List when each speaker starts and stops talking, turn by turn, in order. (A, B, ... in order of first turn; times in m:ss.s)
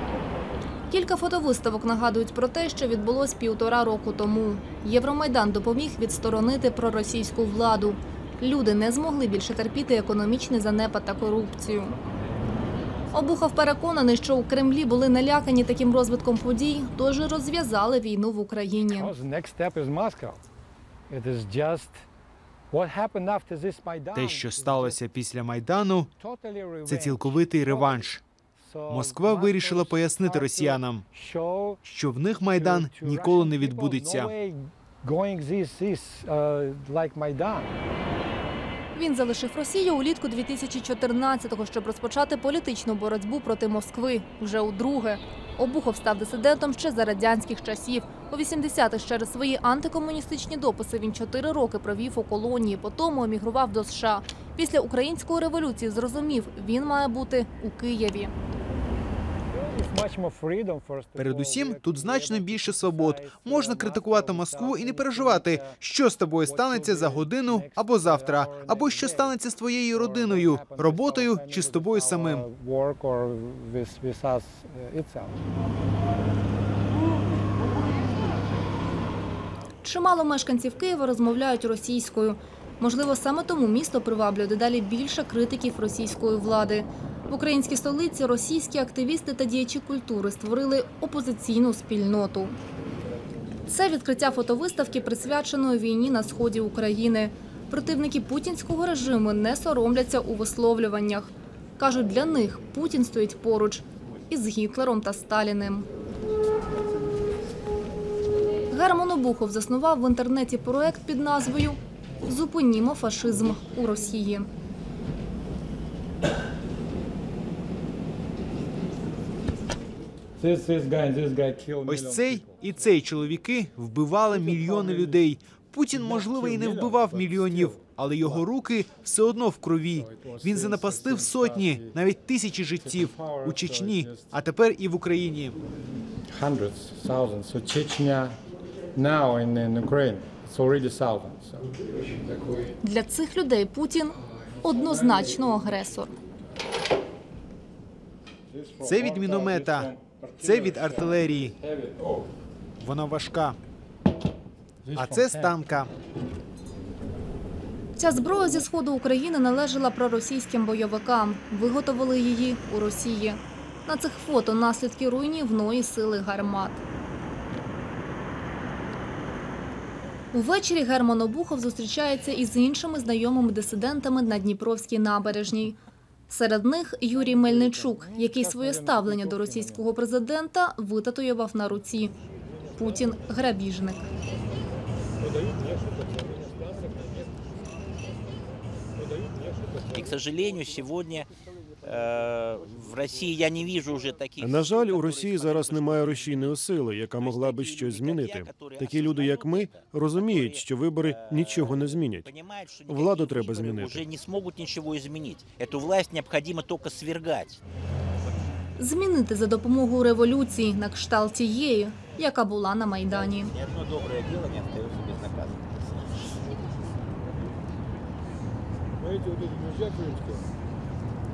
0:00.9-0:12.0 A
0:13.1-0:19.1 A
0:18.9-0:20.4 B
0:21.1-0:22.0 B
0:22.7-0:25.0 B
0:24.1-0:26.1 C
0:26.2-0:28.1 B
0:26.9-0:28.2 C
0:28.6-0:31.8 B
0:28.9-0:31.0 C
0:31.8-0:34.3 C
0:32.6-0:37.7 B
0:38.9-0:58.3 A
0:59.5-1:05.8 B
1:01.2-1:12.4 C
1:06.4-1:09.4 B
1:09.9-1:15.4 B
1:19.8-1:32.6 A
1:33.7-1:45.9 A
1:48.7-1:54.5 A
2:00.4-2:02.9 B
2:01.9-2:15.6 C
2:04.3-2:05.2 B
2:05.9-2:08.4 B
2:09.9-2:12.0 B
2:12.8-2:14.3 B
2:16.3-2:18.4 B
2:19.0-2:22.7 B
2:22.8-2:26.1 A
2:24.4-2:25.9 B
2:28.5-2:32.2 B
2:28.8-2:31.6 C
2:32.8-2:33.6 C
2:34.8-2:35.6 B
2:35.0-2:35.9 C
2:38.0-2:46.8 A
2:50.3-2:55.8 A
2:56.3-3:02.1 A
2:57.1-2:59.8 B
3:02.8-3:04.1 A
3:05.3-3:07.3 B
3:09.1-3:10.1 B
3:09.9-3:11.3 D
3:11.8-3:16.6 D
3:14.4-3:22.3 E
3:17.1-3:27.6 D
3:22.9-3:24.1 E
3:28.8-3:33.5 A
3:33.2-3:36.0 D
3:39.2-3:40.2 B